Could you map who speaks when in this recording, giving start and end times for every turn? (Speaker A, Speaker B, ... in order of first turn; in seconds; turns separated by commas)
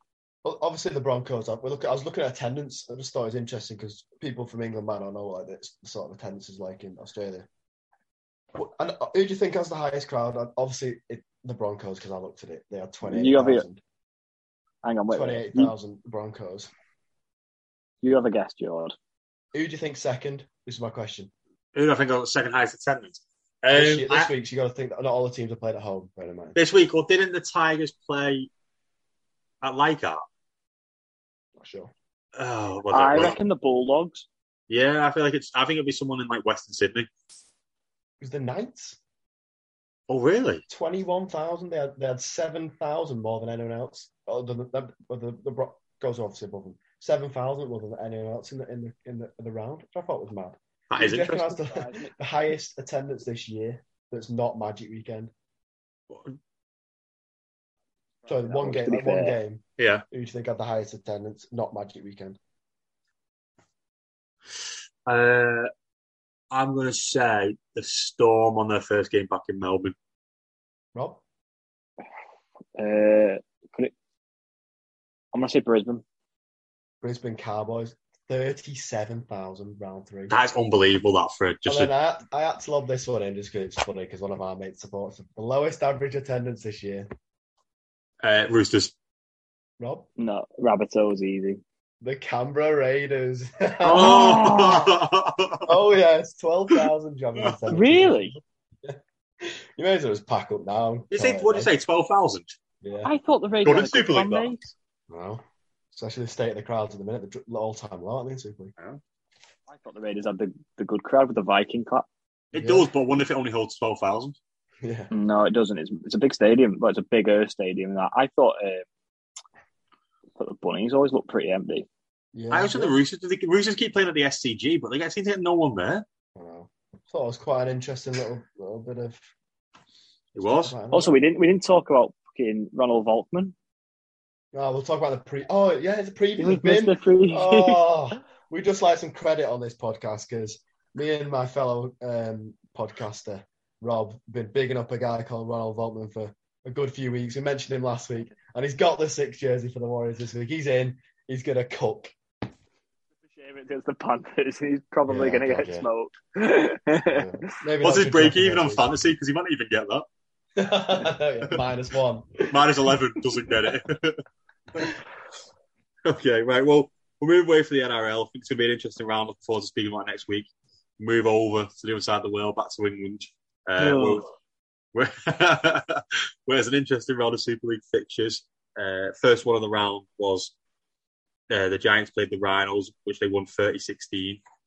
Speaker A: 0.4-7.5, Speaker A: 8.5-13.8, Speaker B: 13.0-13.6, Speaker B: 14.8-15.7, Speaker A: 15.1-16.7, Speaker B: 18.0-18.9, Speaker A: 19.5-21.3, Speaker C: 21.7-24.3, Speaker A: 23.7-26.6, Speaker C: 26.6-28.5, Speaker C: 29.6-30.2, Speaker A: 31.6-31.9, Speaker C: 32.4-33.4, Speaker B: 32.9-34.2, Speaker C: 34.7-37.1, Speaker A: 38.2-39.0, Speaker C: 40.1-40.6, Speaker A: 40.7-55.3, Speaker C: 50.9-51.6, Speaker B: 51.7-52.1, Speaker C: 56.1-56.4, Speaker B: 58.2-59.4, Speaker A: 58.2-62.4, Speaker C: 59.8-60.0, Speaker C: 65.0-65.7, Speaker C: 66.5-69.9, Speaker A: 70.9-71.2, Speaker B: 72.8-73.9, Speaker B: 75.3-76.0, Speaker A: 77.0-80.3, Speaker C: 80.3-81.9, Speaker A: 81.7-87.1, Speaker C: 88.2-88.9, Speaker A: 89.8-90.1, Speaker B: 90.2-91.6, Speaker A: 92.0-94.9, Speaker B: 93.8-94.9, Speaker C: 93.8-95.7, Speaker A: 95.7-101.7, Speaker B: 97.7-98.3, Speaker C: 101.1-102.5, Speaker A: 102.8-103.1, Speaker B: 103.0-104.7, Speaker C: 103.6-104.5, Speaker A: 105.1-108.7, Speaker B: 109.7-112.1, Speaker C: 112.5-114.4, Speaker A: 112.5-112.9, Speaker A: 114.8-115.1, Speaker B: 115.1-118.8, Speaker B: 120.4-121.9, Speaker A: 122.3-122.9, Speaker C: 122.5-126.0, Speaker A: 126.3-129.3, Speaker C: 130.3-130.7, Speaker A: 130.4-131.2, Speaker B: 130.9-133.5, Speaker A: 134.5-152.1, Speaker B: 136.4-137.8, Speaker B: 153.2-157.3, Speaker A: 155.1-155.9, Speaker A: 157.0-158.9, Speaker C: 157.8-160.1, Speaker A: 160.6-163.0, Speaker C: 162.5-164.2, Speaker C: 166.0-170.5, Speaker C: 171.0-174.2, Speaker B: 173.8-174.2, Speaker C: 174.9-180.5, Speaker C: 181.5-184.4